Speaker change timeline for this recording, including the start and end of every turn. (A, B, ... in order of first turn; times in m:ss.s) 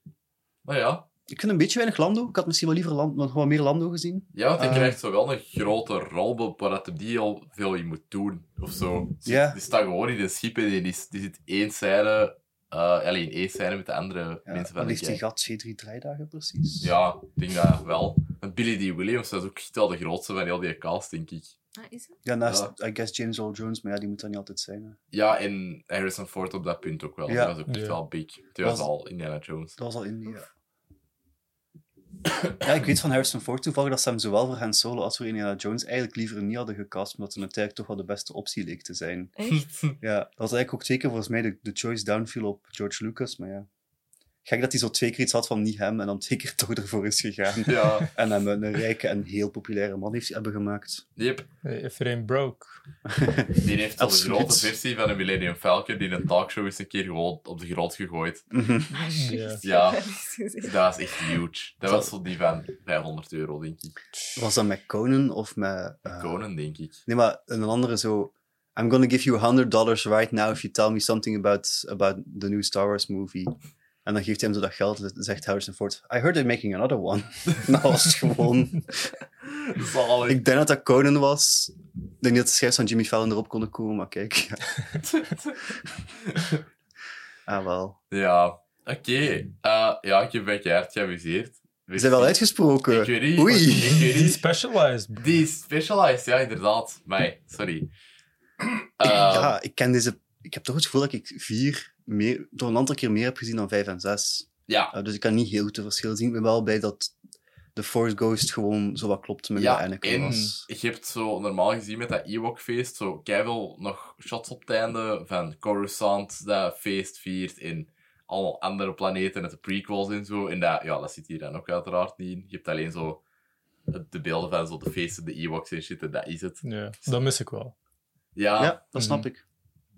0:00.6-0:01.1 A
0:01.3-0:05.0 B
0:04.3-0:15.2 A
0:09.2-0:09.6 B
0:14.5-0:16.9 B
0:16.8-0:21.5 A
0:21.8-0:22.2 C
0:22.2-0:25.0 B
0:25.1-0:29.8 A
0:27.3-0:27.6 B
0:27.7-0:28.0 D
0:28.6-0:28.9 B
0:29.8-0:30.5 B
0:32.6-0:39.3 B
0:39.4-0:39.7 C
0:40.0-0:43.7 B
0:44.4-0:51.0 B
0:47.6-0:48.1 A
0:51.2-0:51.5 A
0:51.6-0:52.7 D
0:53.1-0:54.7 B
0:53.6-0:58.5 A
0:58.5-0:58.9 B
0:58.9-1:01.4 C
0:59.0-0:59.6 D
0:59.6-1:00.0 A
1:00.6-1:04.0 A
1:04.4-1:06.4 B
1:06.2-1:07.0 A
1:07.1-1:19.1 B
1:19.5-1:20.4 A
1:20.3-1:24.6 B
1:25.0-1:26.6 A
1:27.5-1:28.0 B
1:28.1-1:34.4 A
1:32.0-1:34.1 B
1:33.8-1:35.3 D
1:35.2-1:37.9 A
1:39.0-1:39.5 A
1:39.1-1:47.1 B
1:44.7-1:44.9 A
1:47.7-1:50.7 B
1:49.6-2:03.2 A
1:50.2-1:50.5 D
2:03.9-2:06.6 A
2:06.6-2:07.7 D
2:08.4-2:08.8 A
2:08.6-2:09.4 B
2:09.0-2:09.3 D